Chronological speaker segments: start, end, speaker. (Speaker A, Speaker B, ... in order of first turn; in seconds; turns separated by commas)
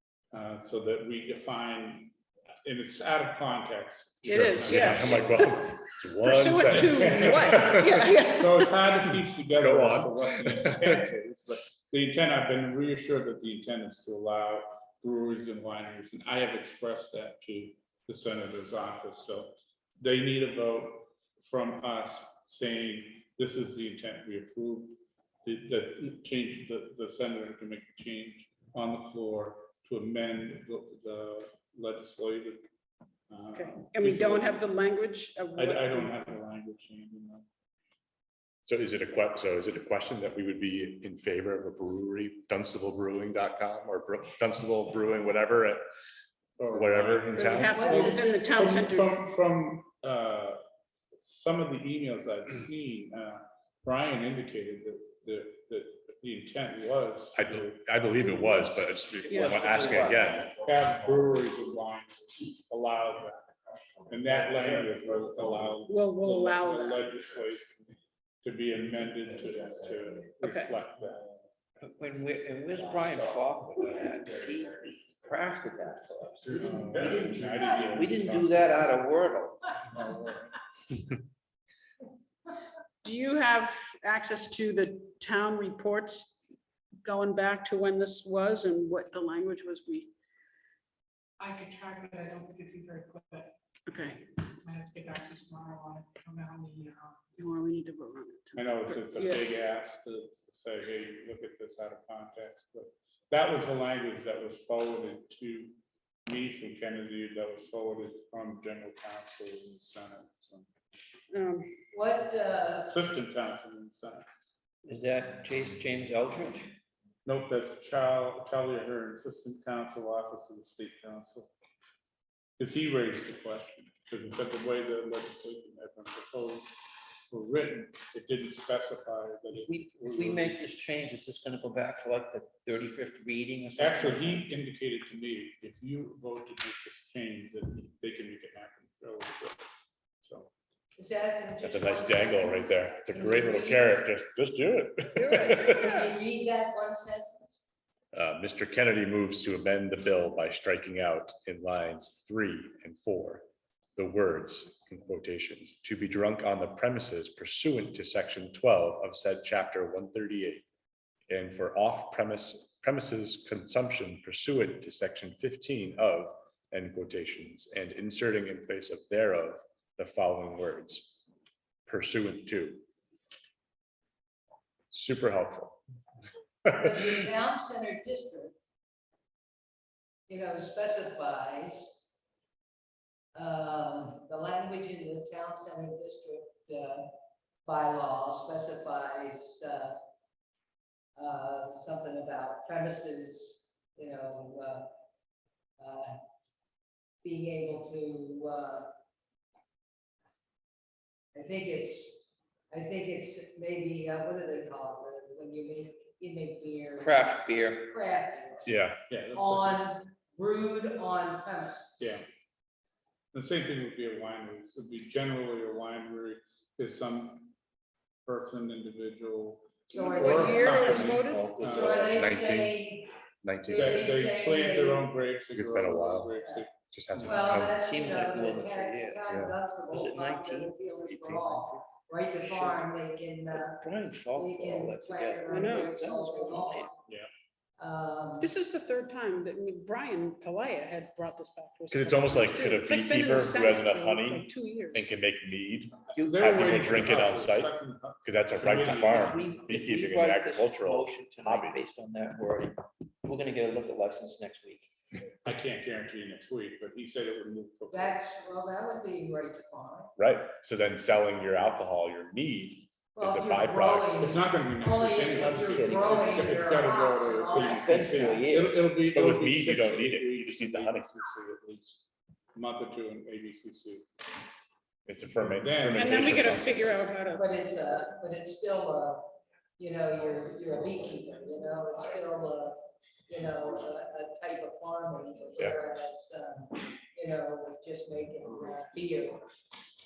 Speaker A: 0.3-2.1, Speaker A: 2.6-5.3, Speaker B: 4.2-8.7, Speaker C: 4.3-8.0, Speaker A: 6.7-32.7, Speaker C: 9.6-11.0, Speaker A: 33.3-34.6, Speaker B: 33.5-36.2, Speaker A: 35.6-37.5, Speaker C: 38.7-45.8, Speaker A: 46.6-50.6, Speaker C: 46.7-47.8, Speaker B: 47.4-49.1, Speaker D: 47.7-48.7, Speaker A: 51.2-57.8, Speaker C: 57.4-60.5, Speaker B: 59.3-59.7, Speaker E: 59.3-60.4, Speaker A: 60.4-63.4, Speaker A: 64.1-67.8, Speaker B: 65.8-67.2, Speaker A: 68.4-71.2, Speaker B: 70.4-70.8, Speaker E: 71.8-79.7, Speaker A: 76.6-79.0, Speaker B: 83.0-86.4, Speaker B: 87.0-90.1, Speaker F: 91.4-93.5, Speaker B: 93.9-94.5, Speaker F: 94.7-97.2, Speaker B: 97.3-99.4, Speaker A: 98.6-105.8, Speaker A: 106.3-110.7, Speaker B: 111.3-111.7, Speaker D: 111.9-112.9, Speaker A: 112.9-114.3, Speaker E: 114.8-116.7, Speaker A: 117.3-121.5, Speaker A: 122.6-126.7, Speaker A: 127.3-130.6, Speaker E: 129.5-134.5, Speaker A: 133.8-139.6, Speaker A: 140.2-140.5, Speaker D: 141.0-144.0, Speaker C: 141.6-146.0, Speaker D: 145.2-147.6, Speaker C: 148.1-160.7, Speaker C: 161.3-171.2, Speaker C: 171.9-172.8, Speaker C: 174.9-175.8, Speaker D: 176.7-178.6, Speaker D: 180.3-182.0, Speaker D: 183.3-187.1, Speaker D: 187.7-190.0, Speaker D: 191.2-194.9, Speaker D: 195.8-196.2, Speaker D: 197.2-198.9, Speaker D: 201.3-208.8, Speaker E: 207.0-207.9, Speaker C: 208.7-209.0, Speaker A: 209.1-209.9, Speaker D: 209.3-212.0, Speaker A: 212.0-212.2, Speaker A: 213.3-217.5, Speaker A: 218.3-222.2, Speaker D: 219.9-223.1, Speaker B: 220.0-221.6, Speaker C: 220.9-224.2, Speaker D: 223.6-225.1, Speaker A: 223.7-227.3, Speaker C: 225.5-227.8, Speaker D: 227.2-237.0, Speaker E: 227.8-232.9, Speaker C: 229.3-229.6, Speaker E: 233.5-236.9, Speaker B: 235.5-236.1, Speaker D: 237.8-238.5, Speaker B: 238.4-245.0, Speaker C: 241.9-251.8, Speaker A: 246.2-249.5, Speaker E: 246.2-246.7, Speaker E: 249.0-254.9, Speaker A: 255.4-258.2, Speaker D: 257.9-260.1, Speaker C: 260.2-264.2, Speaker D: 263.1-268.6, Speaker A: 264.2-272.0, Speaker C: 265.4-266.6, Speaker E: 267.5-268.9, Speaker C: 269.1-271.1, Speaker A: 272.5-274.1, Speaker C: 275.1-277.0, Speaker A: 275.4-276.9, Speaker B: 275.9-277.5, Speaker D: 277.3-289.5